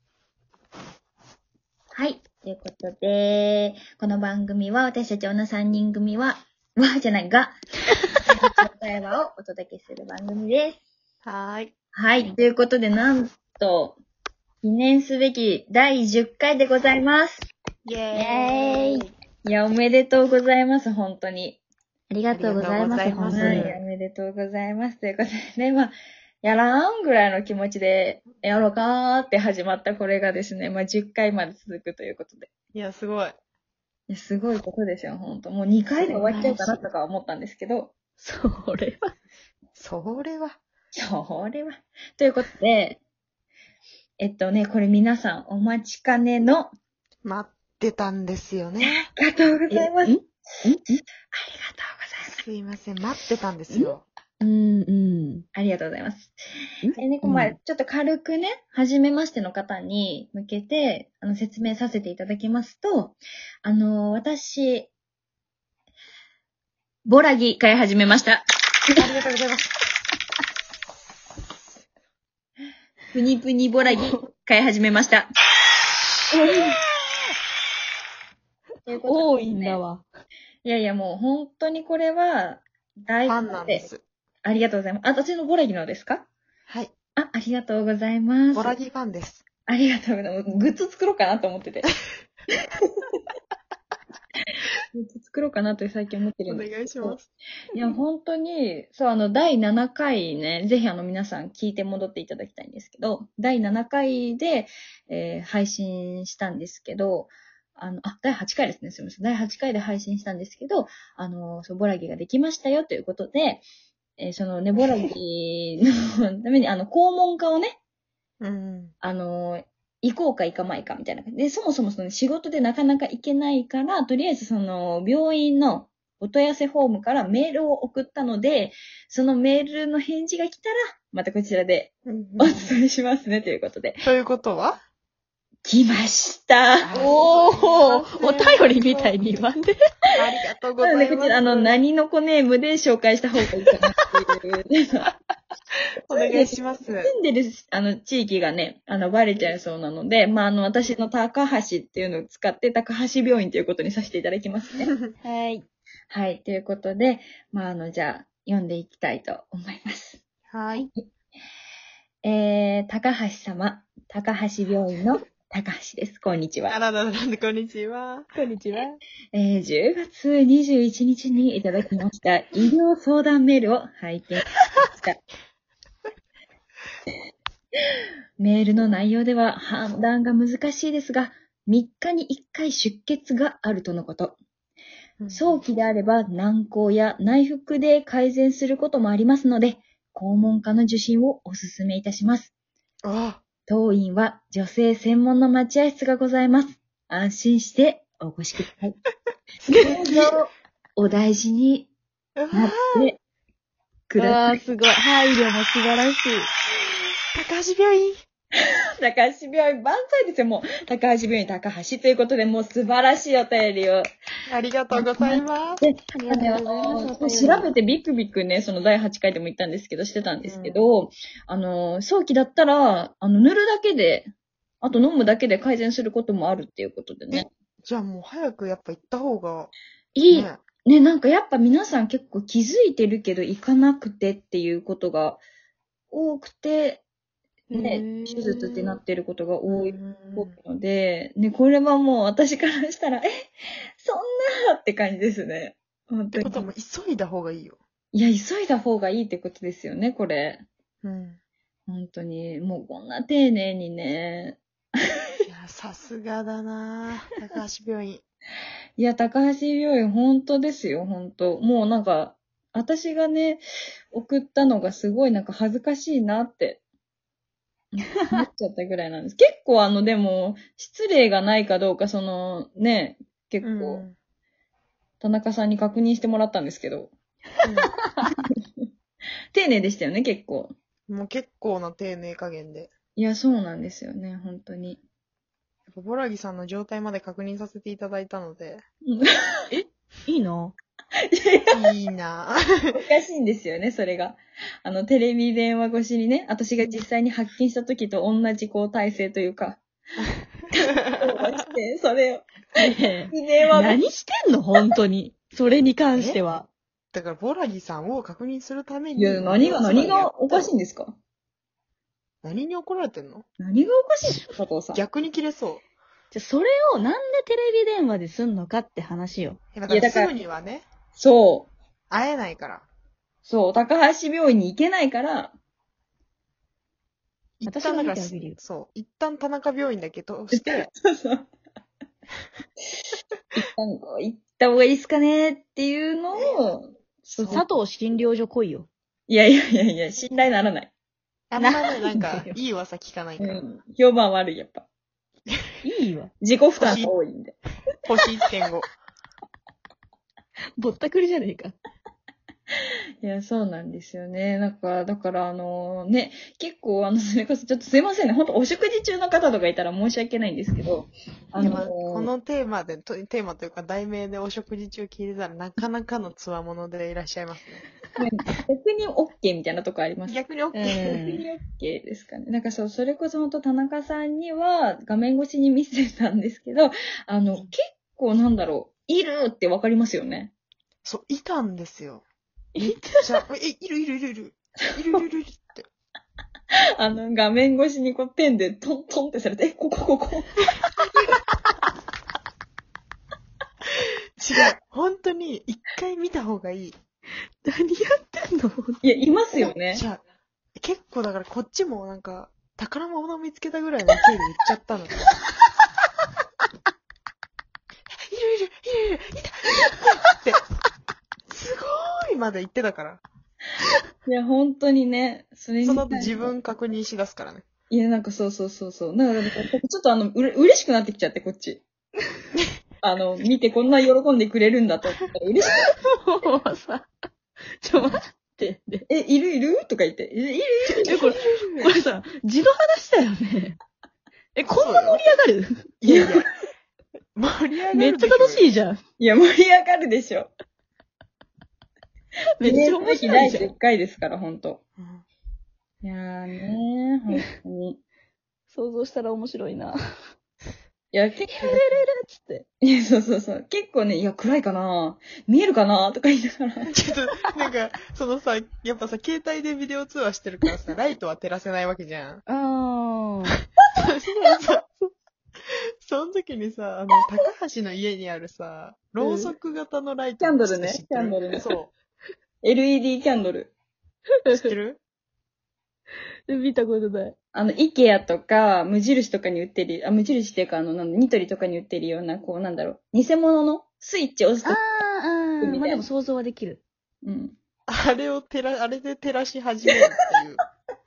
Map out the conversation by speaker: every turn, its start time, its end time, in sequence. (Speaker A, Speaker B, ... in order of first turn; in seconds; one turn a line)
Speaker A: 1.9-7.5
Speaker A: 8.3-10.8
Speaker B: 11.2-11.7
Speaker A: 11.9-14.0
Speaker A: 14.6-17.5
Speaker B: 17.9-19.1
Speaker C: 18.2-19.0
Speaker A: 19.4-21.6
Speaker C: 22.1-23.8
Speaker B: 22.3-23.8
Speaker A: 23.3-32.5
Speaker B: 32.7-33.4
Speaker A: 34.1-37.9
Speaker B: 36.0-36.4
Speaker C: 36.1-36.8
Speaker C: 38.2-39.1
Speaker B: 39.8-40.6
Speaker A: 40.9-43.0
Speaker A: 44.2-46.7
Speaker B: 47.2-49.1
Speaker A: 48.8-50.7
Speaker C: 49.7-51.0
Speaker A: 51.3-52.4
Speaker B: 52.4-54.0
Speaker C: 53.7-55.4
Speaker A: 55.5-56.4
Speaker C: 56.8-57.6
Speaker A: 57.0-64.9
Speaker A: 67.0-68.4
Speaker B: 69.0-69.7
Speaker A: 73.1-75.3
Speaker C: 73.9-74.2
Speaker C: 76.3-76.8
Speaker A: 78.9-79.8
Speaker C: 79.0-80.0
Speaker A: 80.6-83.9
Speaker B: 83.3-84.0
Speaker A: 84.4-86.3
Speaker B: 86.7-86.9
Speaker A: 87.2-88.8
Speaker B: 88.5-89.4
Speaker A: 89.7-91.9
Speaker A: 94.9-97.2
Speaker B: 96.5-97.3
Speaker A: 97.7-113.6
Speaker A: 114.2-117.8
Speaker B: 118.4-118.9
Speaker A: 119.0-134.0
Speaker B: 132.1-132.8
Speaker B: 134.0-134.8
Speaker A: 135.6-137.1
Speaker B: 136.8-139.2
Speaker C: 136.9-139.7
Speaker B: 140.2-141.8
Speaker A: 140.8-145.1
Speaker B: 146.1-147.1
Speaker A: 146.1-154.9
Speaker C: 155.2-155.6
Speaker A: 156.1-160.2
Speaker B: 160.5-160.9
Speaker A: 162.2-166.8
Speaker B: 166.7-168.3
Speaker C: 168.3-169.0
Speaker A: 169.3-175.2
Speaker A: 178.4-184.3
Speaker B: 185.2-185.6
Speaker A: 185.3-192.5
Speaker B: 193.0-193.4
Speaker A: 193.7-198.9
Speaker B: 199.7-200.4
Speaker C: 199.7-200.0
Speaker A: 199.8-201.9
Speaker B: 202.4-203.1
Speaker A: 202.5-203.2
Speaker A: 204.1-204.6
Speaker C: 204.2-206.5
Speaker B: 207.3-208.2
Speaker A: 209.0-214.1
Speaker B: 214.5-215.8
Speaker A: 214.9-224.3
Speaker C: 216.1-217.7
Speaker B: 220.4-220.8
Speaker A: 224.8-227.5
Speaker B: 227.3-229.7
Speaker C: 230.2-230.5
Speaker B: 230.3-230.6
Speaker A: 230.8-235.4
Speaker A: 236.1-237.0
Speaker C: 237.7-238.1
Speaker A: 237.7-243.3
Speaker B: 237.8-239.0
Speaker B: 239.7-240.6
Speaker A: 244.0-246.6
Speaker B: 246.3-247.8
Speaker A: 248.1-250.7
Speaker B: 251.0-251.4
Speaker A: 251.9-254.6
Speaker B: 255.5-258.2
Speaker A: 259.0-266.8
Speaker A: 268.0-274.0
Speaker B: 273.6-274.2
Speaker A: 275.2-277.1
Speaker B: 277.6-277.9
Speaker A: 279.5-280.7
Speaker B: 281.1-282.9
Speaker A: 283.2-285.0
Speaker B: 285.9-288.8
Speaker A: 289.1-289.4
Speaker C: 289.7-290.7
Speaker A: 291.2-291.7
Speaker B: 291.7-293.0
Speaker A: 292.9-299.8
Speaker A: 300.7-302.7
Speaker C: 302.8-306.7
Speaker A: 303.3-304.0
Speaker B: 306.1-306.4
Speaker B: 307.1-310.7
Speaker A: 309.1-311.2
Speaker B: 312.4-313.5
Speaker A: 313.6-315.0
Speaker B: 314.9-315.8
Speaker C: 316.3-319.6
Speaker B: 319.7-320.9
Speaker A: 319.9-320.4
Speaker A: 321.1-321.7
Speaker B: 322.1-322.9
Speaker A: 323.4-325.6
Speaker B: 327.6-330.9
Speaker C: 327.6-328.6
Speaker A: 330.5-331.5
Speaker A: 333.5-337.6
Speaker B: 336.3-336.6
Speaker B: 337.3-337.6
Speaker C: 337.5-338.9
Speaker A: 339.3-340.9
Speaker B: 341.5-343.6
Speaker C: 341.6-342.6
Speaker A: 343.4-344.9
Speaker C: 345.8-346.3
Speaker A: 346.4-347.6
Speaker B: 346.8-347.1
Speaker B: 348.1-348.9
Speaker C: 350.8-351.8
Speaker A: 353.2-362.3
Speaker B: 361.6-367.9
Speaker A: 368.2-380.5
Speaker B: 370.2-371.5
Speaker B: 381.1-382.2
Speaker C: 382.8-383.3
Speaker B: 382.8-385.9
Speaker A: 387.0-390.6
Speaker B: 394.4-397.0
Speaker C: 397.6-399.0
Speaker A: 399.0-400.0
Speaker B: 399.9-400.2
Speaker B: 400.8-405.2
Speaker B: 408.3-410.6
Speaker B: 411.5-413.2
Speaker A: 414.2-416.5
Speaker B: 415.8-417.6
Speaker A: 417.9-421.8
Speaker A: 423.0-425.9
Speaker C: 426.0-427.1
Speaker C: 427.8-429.0
Speaker A: 429.1-431.4
Speaker B: 431.0-431.8
Speaker C: 431.0-433.8
Speaker C: 434.6-435.9
Speaker B: 434.6-435.2
Speaker B: 436.0-436.5
Speaker A: 436.1-436.4
Speaker B: 437.4-438.7
Speaker C: 437.9-439.0
Speaker A: 439.2-440.5
Speaker C: 442.6-443.7
Speaker A: 442.6-444.8
Speaker B: 445.0-445.2
Speaker A: 446.0-448.0
Speaker C: 448.7-450.0
Speaker A: 451.1-452.0
Speaker C: 451.5-452.6
Speaker A: 452.8-456.9
Speaker B: 456.9-462.4
Speaker C: 462.5-463.6
Speaker B: 464.0-465.1
Speaker B: 465.7-471.9
Speaker C: 469.2-469.5
Speaker A: 470.4-471.7
Speaker A: 472.6-473.7
Speaker C: 474.5-474.7
Speaker B: 474.5-475.0
Speaker C: 476.5-477.4
Speaker A: 477.5-484.8
Speaker C: 484.6-486.8
Speaker A: 485.6-486.1
Speaker A: 487.2-487.6
Speaker B: 487.9-490.6